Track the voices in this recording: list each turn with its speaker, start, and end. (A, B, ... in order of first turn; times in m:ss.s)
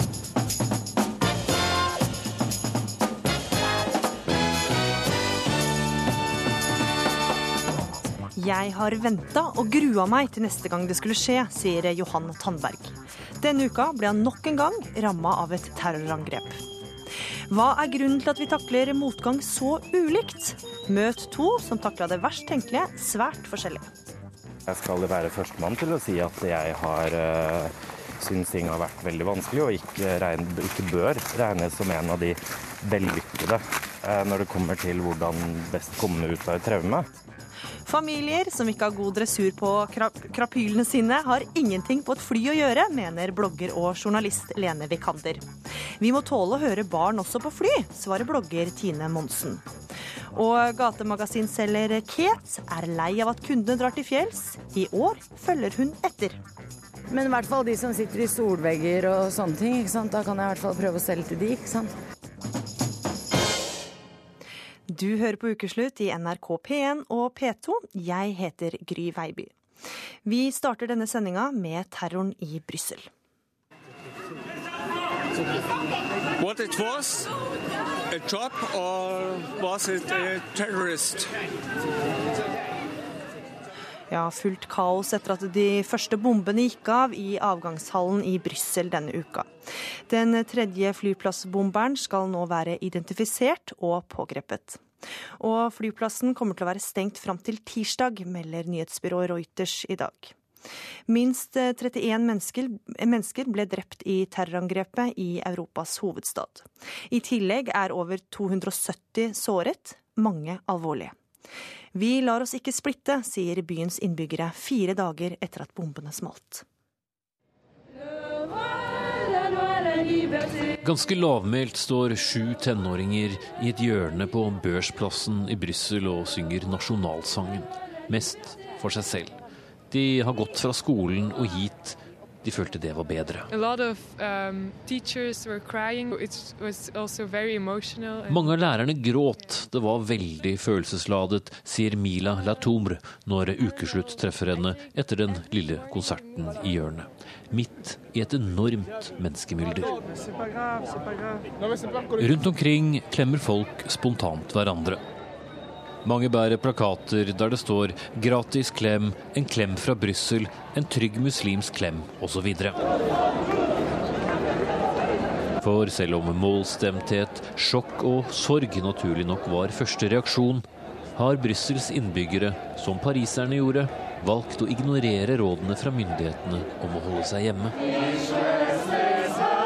0:08.4-0:16.6 A
0:17.5-0:23.9 A
0:24.7-0:37.1 B
0:37.9-0:45.5 A
0:46.0-0:49.7 A
0:50.3-0:56.4 A
0:57.1-1:02.0 C
1:04.9-1:09.5 A
1:10.2-1:13.1 A
1:16.4-1:17.3 D
1:18.1-1:21.3 D
1:24.1-1:29.6 A
1:30.1-1:34.8 A
1:35.4-1:40.3 A
1:41.1-1:51.1 A
1:51.9-1:56.6 A
2:00.8-2:09.4 E
2:09.9-2:13.5 E
2:13.5-2:18.4 F
2:18.2-2:30.0 E
2:32.2-2:35.0 E
2:36.0-2:42.8 E
2:45.6-2:57.8 E